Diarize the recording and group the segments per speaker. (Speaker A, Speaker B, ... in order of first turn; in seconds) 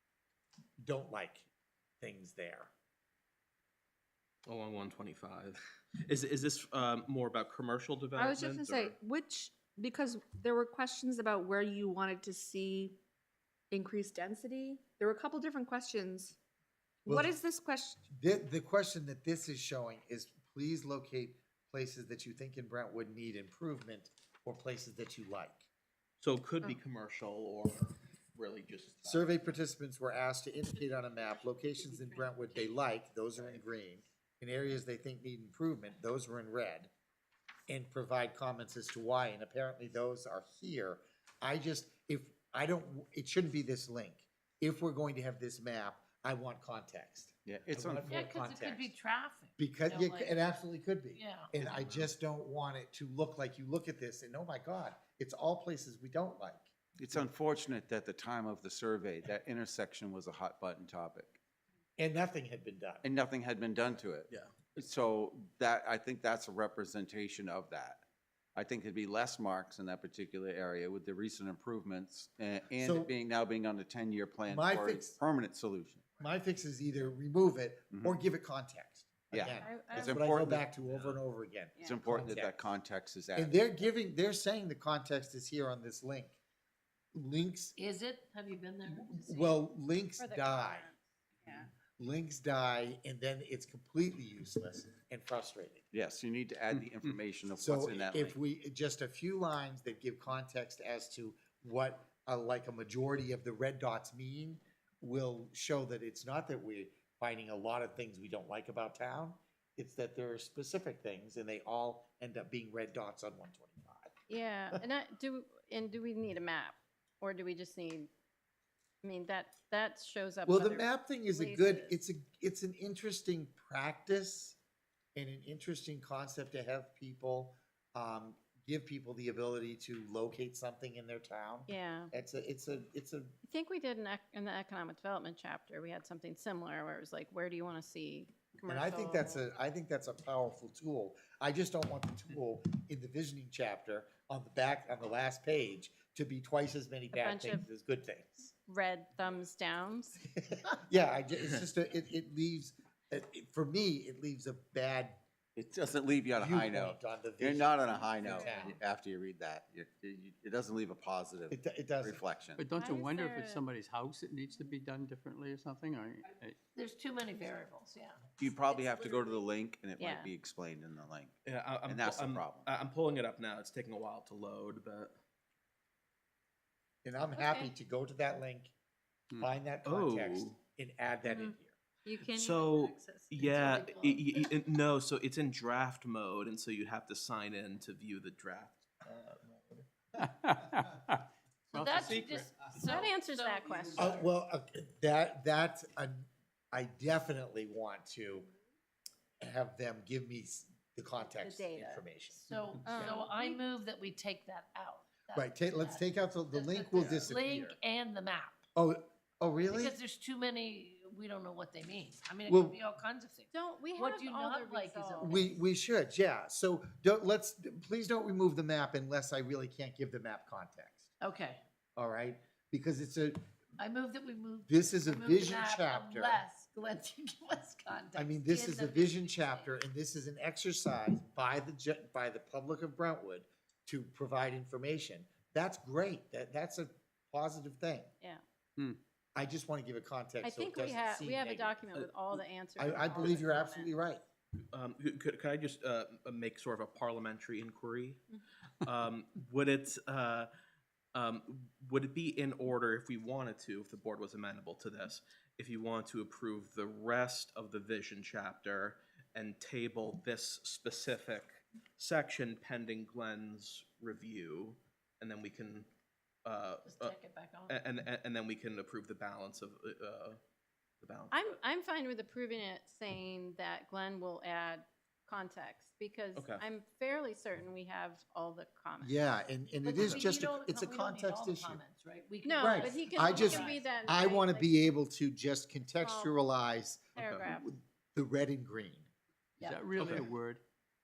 Speaker A: 0.8-1.5, 2.0-2.7, 17.1-17.3, 18.1-25.7, 29.0-36.9, 37.7-48.9, 49.6-56.7, 62.0-63.0, 72.8-73.1, 74.5-75.2, 76.2-82.7, 83.3-86.4, 87.1-87.7, 88.9-90.9, 92.0-95.8, 97.6-114.8, 120.5-124.6, 125.1-133.3, 138.7-148.5, 150.5-155.2, 156.3-158.8, 161.5-162.2, 177.0-178.7, 179.4-181.8, 193.9-198.5, 199.4-202.4, 205.3-207.8, 208.7-209.9, 212.4-212.8, 215.2-221.1, 221.9-223.4, 224.7-226.4, 228.1-238.1, 239.3-241.8, 242.8-244.2, 279.0-281.8, 282.6-289.1, 289.9-290.3
Speaker B: 4.5-9.0, 26.2-29.5, 80.9-81.2, 171.4-175.1, 179.8-180.6, 182.2-189.2, 241.9-242.4, 244.7-248.2, 248.8-250.5, 251.1-265.9, 266.4-267.1, 267.7-270.4, 271.0-271.5, 276.3-276.6, 287.2-287.5
Speaker C: 8.2-12.9, 13.7-16.4, 17.1-18.0
Speaker D: 31.9-32.6, 48.1-50.5, 51.1-51.5, 87.8-89.6, 166.7-169.4, 183.4-184.2, 191.8-194.3, 202.3-208.6, 209.7-215.5, 221.2-221.6, 223.8-229.8, 266.9-267.8, 279.8-283.9, 289.6-289.9
Speaker E: 47.5-48.1, 57.0-61.4, 63.0-68.0, 68.5-76.1, 77.9-78.2, 79.3-80.7, 81.8-83.8, 95.9-98.4, 155.5-162.6, 168.4-172.7, 207.0-207.3
Speaker F: 79.6-80.2, 90.2-91.7, 114.3-118.1, 119.0-122.0, 131.7-132.1, 133.4-139.4, 147.1-147.7, 148.7-150.2, 158.4-158.7, 162.7-163.6, 170.0-170.3, 177.3-177.7, 181.3-183.4, 192.9-193.9, 201.3-202.1, 202.8-203.6, 213.5-215.5, 240.4-243.9, 271.3-279.3, 282.4-284.8, 286.0-286.4, 287.1-287.7
Speaker G: 162.6-166.6, 190.2-192.5, 289.6-290.6